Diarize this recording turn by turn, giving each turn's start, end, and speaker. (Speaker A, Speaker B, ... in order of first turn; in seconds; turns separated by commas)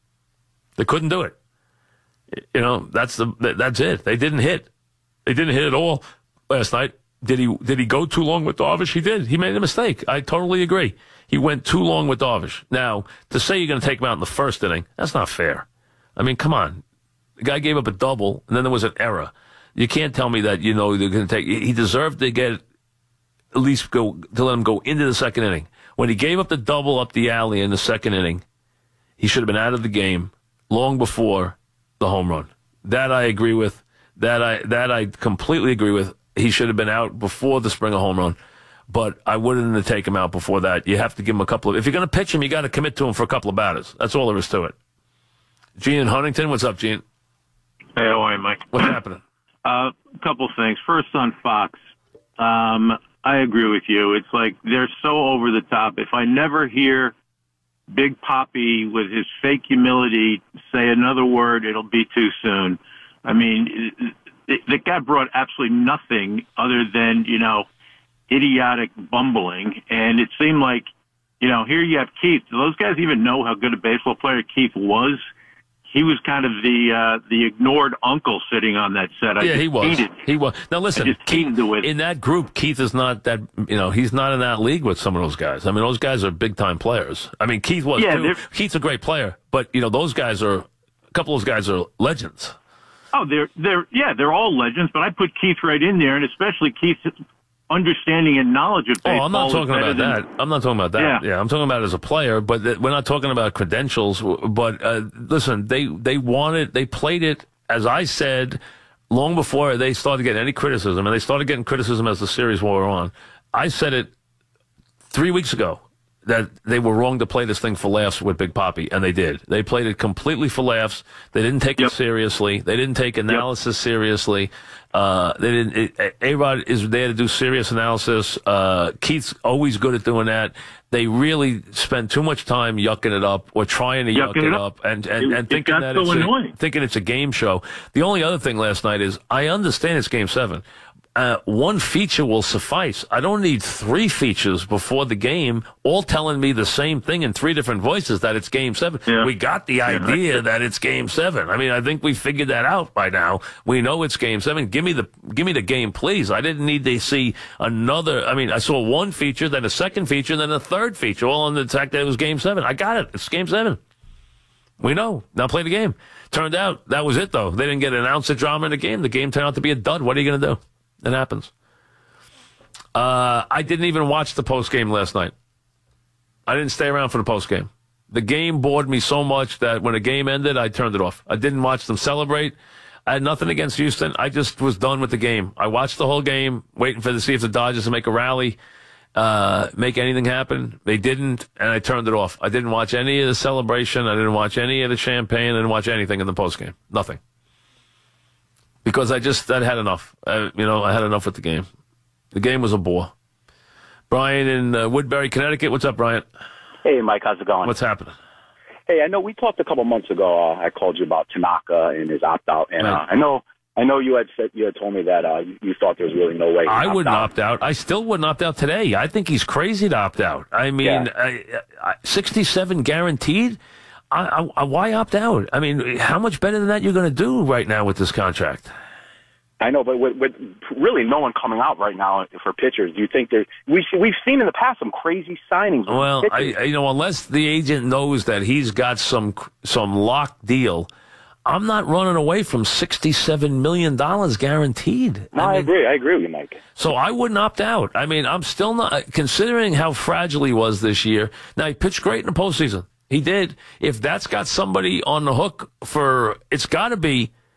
Speaker A: 0.8-1.4, Speaker A: 2.5-4.7, Speaker A: 5.2-15.7, Speaker A: 16.2-16.8, Speaker A: 17.4-22.6, Speaker A: 23.5-28.4, Speaker A: 29.2-38.4, Speaker A: 38.9-44.8, Speaker A: 45.8-47.0, Speaker B: 48.0-48.9, Speaker A: 48.7-49.2, Speaker B: 49.6-51.8, Speaker B: 52.4-57.1, Speaker B: 57.9-67.7, Speaker B: 68.3-70.9, Speaker B: 71.4-75.2, Speaker B: 75.9-80.1, Speaker A: 79.4-92.5, Speaker B: 81.0-81.9, Speaker B: 88.0-88.4, Speaker B: 93.1-97.1, Speaker B: 97.7-100.2, Speaker A: 99.0-108.6, Speaker B: 101.0-101.2, Speaker A: 109.1-114.1, Speaker A: 115.1-140.6, Speaker B: 134.2-134.6, Speaker B: 135.2-136.5, Speaker A: 141.2-163.8, Speaker A: 164.8-171.5, Speaker A: 172.9-175.3, Speaker A: 176.5-182.6, Speaker A: 183.1-188.6, Speaker A: 189.2-197.2, Speaker A: 198.8-201.7, Speaker A: 202.3-203.1, Speaker A: 204.1-206.2, Speaker C: 206.8-207.8, Speaker A: 207.6-208.2, Speaker C: 208.9-217.3, Speaker A: 216.7-223.6, Speaker C: 220.8-221.1, Speaker A: 224.1-228.7, Speaker C: 229.6-236.5, Speaker A: 235.9-240.9, Speaker A: 241.5-245.7, Speaker C: 245.3-246.6, Speaker A: 246.8-257.3